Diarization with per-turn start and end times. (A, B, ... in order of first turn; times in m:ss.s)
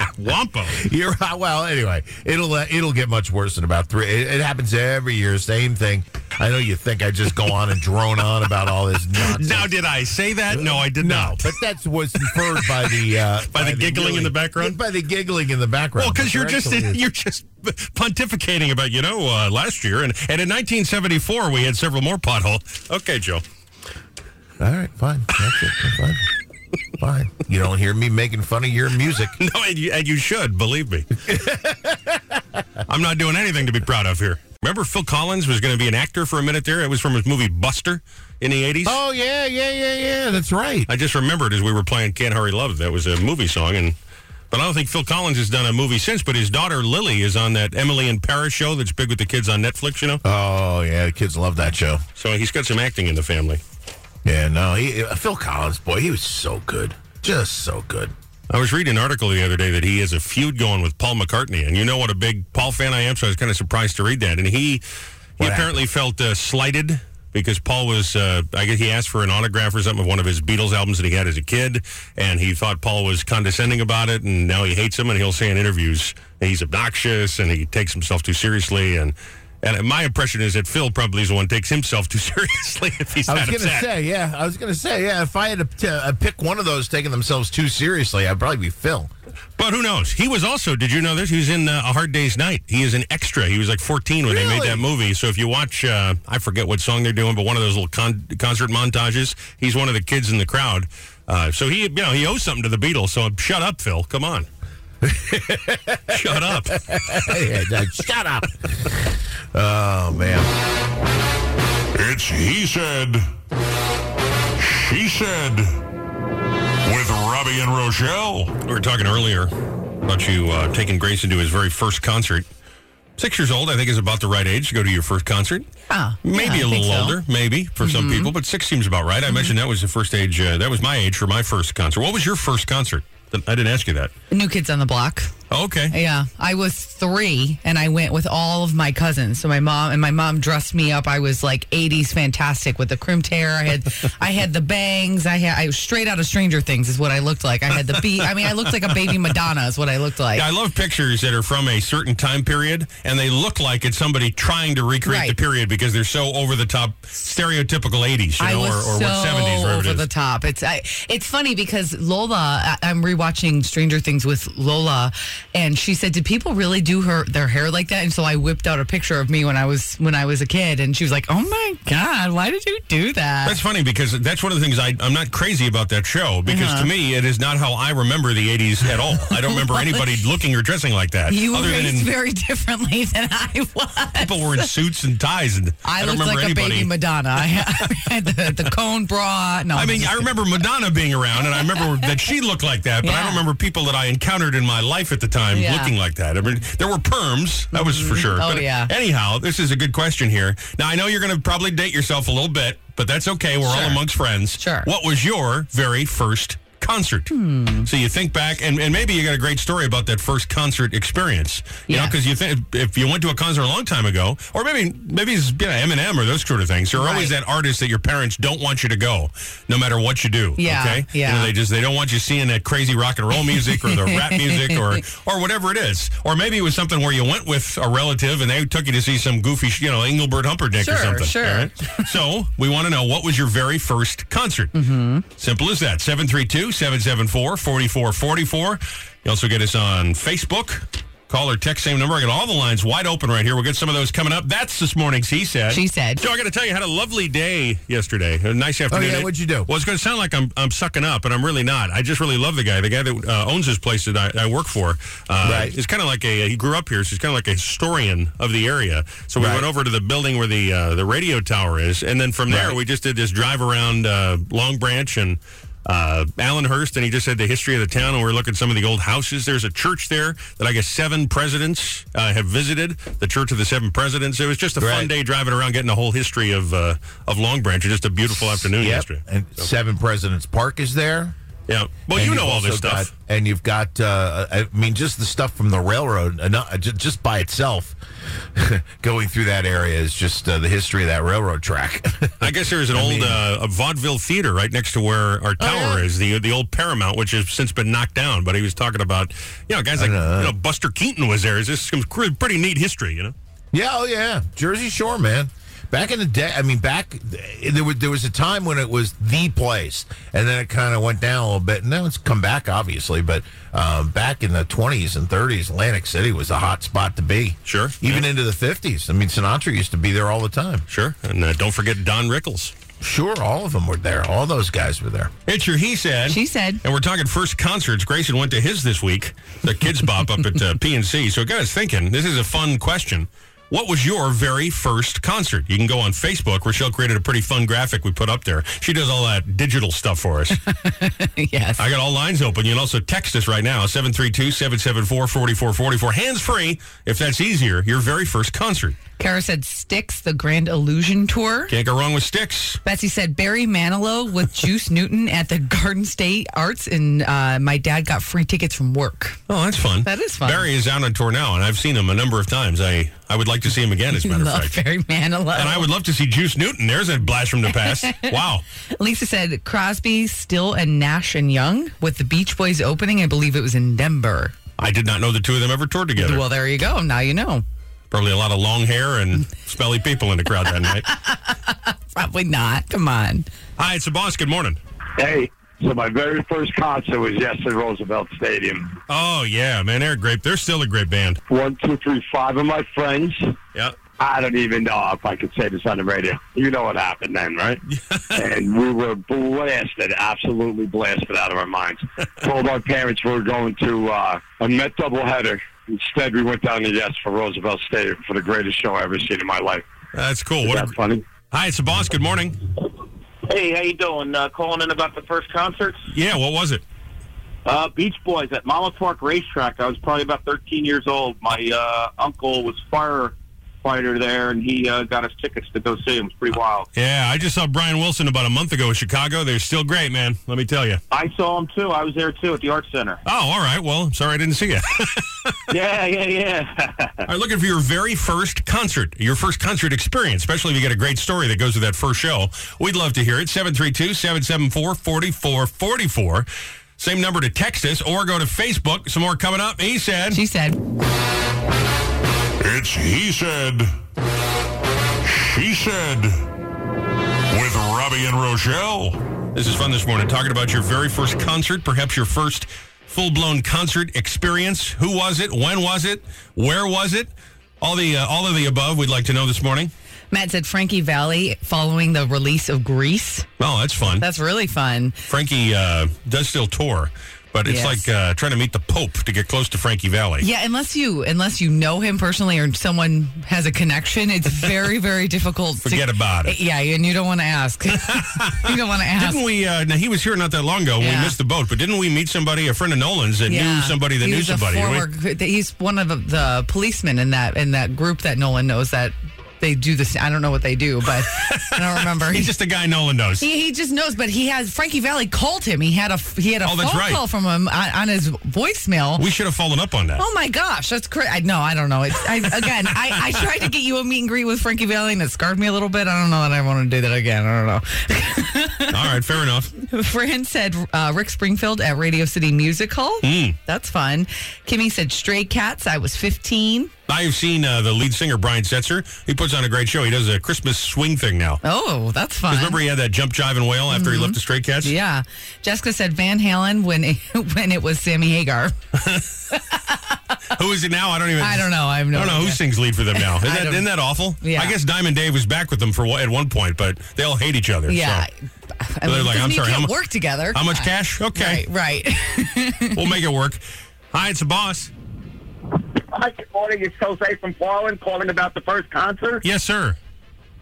0:00.2-0:00.8 A
0:00.8-0:09.7 B
0:09.2-0:11.5 A
0:10.5-0:17.0 B
0:12.2-0:14.8 A
0:16.0-0:23.4 A
0:24.6-0:26.3 B
0:27.0-0:29.4 B
0:29.4-0:31.1 A
0:31.2-0:32.6 B
0:32.9-0:39.0 A
0:38.8-0:40.9 B
0:40.9-0:44.0 A
0:44.5-0:50.2 A
0:50.2-0:52.0 B
0:52.2-0:53.6 A
0:54.2-0:58.1 B
0:58.5-1:04.8 A
1:05.4-1:23.9 A
1:05.4-1:05.8 B
1:23.3-1:29.1 B
1:29.6-1:44.5 A
1:34.3-1:34.8 B
1:45.0-1:50.5 B
1:46.1-1:46.8 A
1:51.9-1:53.3 C
1:54.6-1:55.8 C
1:56.8-1:58.6 C
1:58.6-1:59.5 A
2:00.0-2:02.5 A
2:03.2-2:05.7 A
2:05.9-2:07.2 D
2:06.2-2:14.1 A
2:07.8-2:08.3 D
2:09.3-2:09.5 D
2:14.3-2:15.3 D
2:15.5-2:16.0 A
2:15.9-2:30.5 D
2:28.4-2:29.1 A
2:30.3-2:40.0 A
2:35.0-2:35.4 D
2:38.4-2:53.6 D
2:53.4-3:02.1 A
2:56.4-2:56.9 D
2:59.2-3:00.2 D
3:01.3-3:04.7 D
3:04.2-3:08.4 A
3:05.8-3:10.4 D
3:09.7-3:27.3 A
3:11.4-3:12.2 D
3:13.0-3:13.4 D
3:15.5-3:15.9 D
3:17.7-3:18.9 D
3:23.6-3:24.0 D
3:24.6-3:24.9 D
3:27.3-3:27.9 D
3:27.8-3:54.8 A
3:31.9-3:32.1 D
3:36.9-3:37.3 D
3:40.6-3:41.5 D
3:43.5-3:45.0 D
3:50.8-3:52.1 D
3:54.7-3:55.2 D
3:55.4-4:39.7 A
4:05.7-4:06.2 D
4:08.9-4:09.7 B
4:15.4-4:15.8 B
4:19.4-4:19.7 B
4:22.5-4:22.8 B
4:34.8-4:35.1 B
4:38.8-4:41.3 B
4:41.7-4:43.1 A
4:42.1-4:48.0 B
4:48.5-4:53.4 B
4:52.4-5:03.3 A
4:55.6-4:56.0 D
5:00.0-5:00.5 B
5:03.7-5:20.8 B
5:17.6-5:18.3 A
5:20.9-5:22.7 A
5:23.0-5:25.3 B
5:25.5-5:40.6 A
5:26.3-5:26.8 D
5:40.5-5:41.8 D
5:41.8-5:49.0 A
5:49.2-5:51.7 D
5:51.7-5:52.8 A
5:52.8-5:59.4 D
5:59.5-6:04.8 A
6:00.0-6:00.7 D
6:04.1-6:05.9 D
6:05.5-6:08.6 A
6:07.6-6:14.6 D
6:14.8-6:16.4 A
6:16.2-6:17.6 D
6:18.1-6:21.1 A
6:20.8-6:23.5 D
6:23.8-6:24.8 A
6:25.2-6:29.0 E
6:29.1-6:31.4 A
6:31.5-6:33.6 E
6:34.2-6:37.8 E
6:37.9-6:38.4 A
6:38.3-6:49.8 E
6:50.1-6:50.9 A
6:50.6-6:51.2 E
6:51.5-6:52.6 A
6:53.5-6:56.0 F
6:56.1-6:56.8 A
6:57.6-7:06.9 F
7:06.9-7:11.0 A
7:11.1-7:13.2 F
7:13.2-7:15.6 A
7:15.7-7:17.3 F
7:17.2-7:30.4 A
7:30.3-7:30.8 D
7:32.6-7:33.9 C
7:35.2-7:36.5 C
7:37.5-7:39.2 C
7:39.5-7:49.9 A
7:50.3-7:53.5 D
7:53.6-7:54.3 A
7:54.1-7:55.2 D
7:55.3-8:00.5 A
7:57.6-7:58.1 D
8:00.4-8:09.4 D
8:05.8-8:06.6 A
8:08.0-8:15.1 A
8:11.0-8:11.4 D
8:13.5-8:22.5 D
8:21.3-8:23.4 A
8:23.4-8:29.2 D
8:26.6-8:27.2 A
8:29.2-8:30.2 A
8:30.2-8:39.2 D
8:32.9-8:33.4 A
8:38.9-8:39.7 A
8:39.8-8:46.9 D
8:43.2-8:43.6 A
8:47.1-8:51.6 A
8:51.6-8:52.8 D
8:52.5-8:54.9 A
8:53.9-8:58.8 D
8:58.9-8:59.3 A
8:59.5-9:00.2 D
9:00.5-9:08.2 A
9:01.4-9:04.8 D
9:07.9-9:13.1 D
9:09.0-9:09.9 A
9:10.5-9:11.6 A
9:12.9-9:14.9 A
9:16.1-9:19.4 G
9:19.4-9:20.0 A